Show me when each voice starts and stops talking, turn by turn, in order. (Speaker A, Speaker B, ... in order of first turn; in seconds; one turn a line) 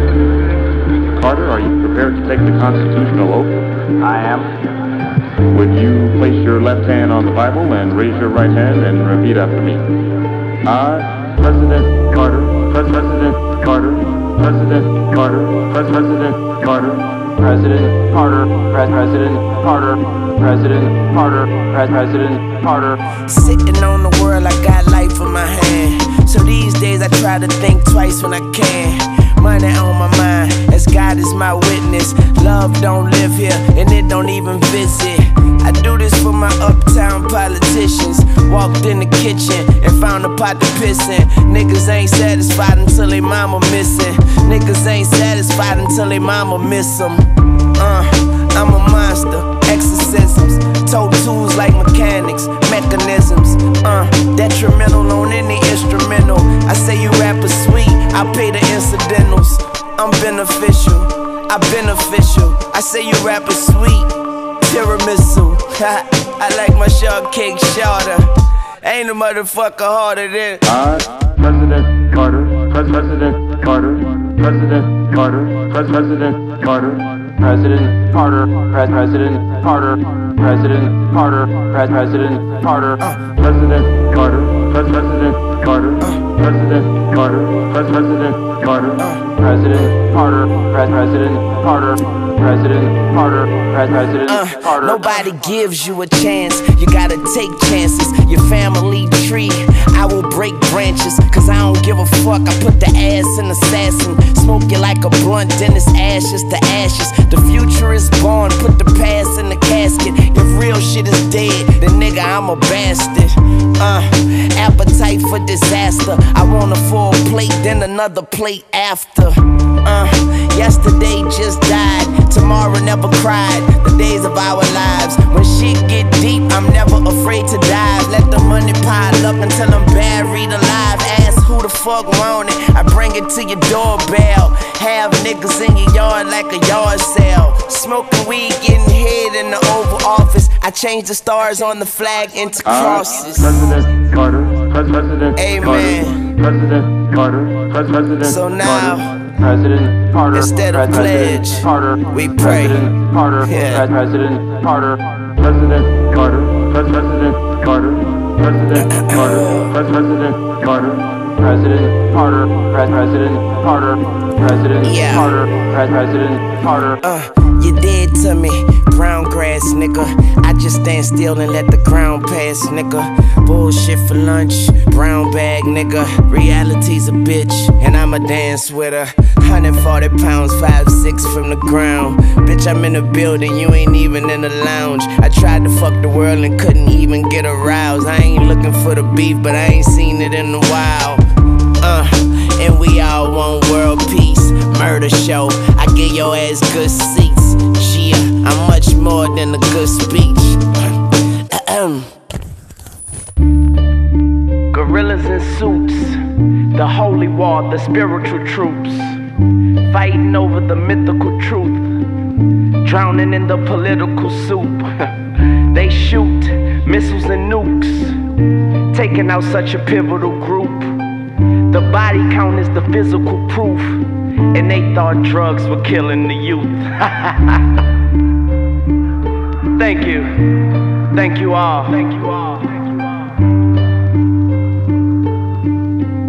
Speaker A: 1.2-3.5
Speaker A: 4.1-4.5
Speaker A: 5.5-9.8
Speaker A: 10.6-17.1
Speaker B: 17.4-23.0
Speaker C: 23.1-70.8
Speaker A: 70.7-77.0
Speaker B: 77.4-83.0
Speaker C: 83.0-83.5
Speaker C: 85.8-86.5
Speaker C: 88.7-89.4
Speaker B: 89.4-94.2
Speaker C: 94.2-143.9
Speaker C: 145.1-146.5
Speaker C: 147.7-149.3
Speaker B: 149.5-150.3
Speaker C: 150.2-154.0
Speaker B: 154.0-155.0
Speaker C: 158.6-160.0
Speaker B: 161.4-164.8
Speaker C: 164.7-165.5
Speaker B: 165.6-166.9
Speaker C: 166.9-202.2
Speaker C: 204.7-212.0
Speaker C: 212.8-218.2
Speaker C: 218.9-221.1
Speaker C: 221.7-227.8
Speaker C: 229.6-233.1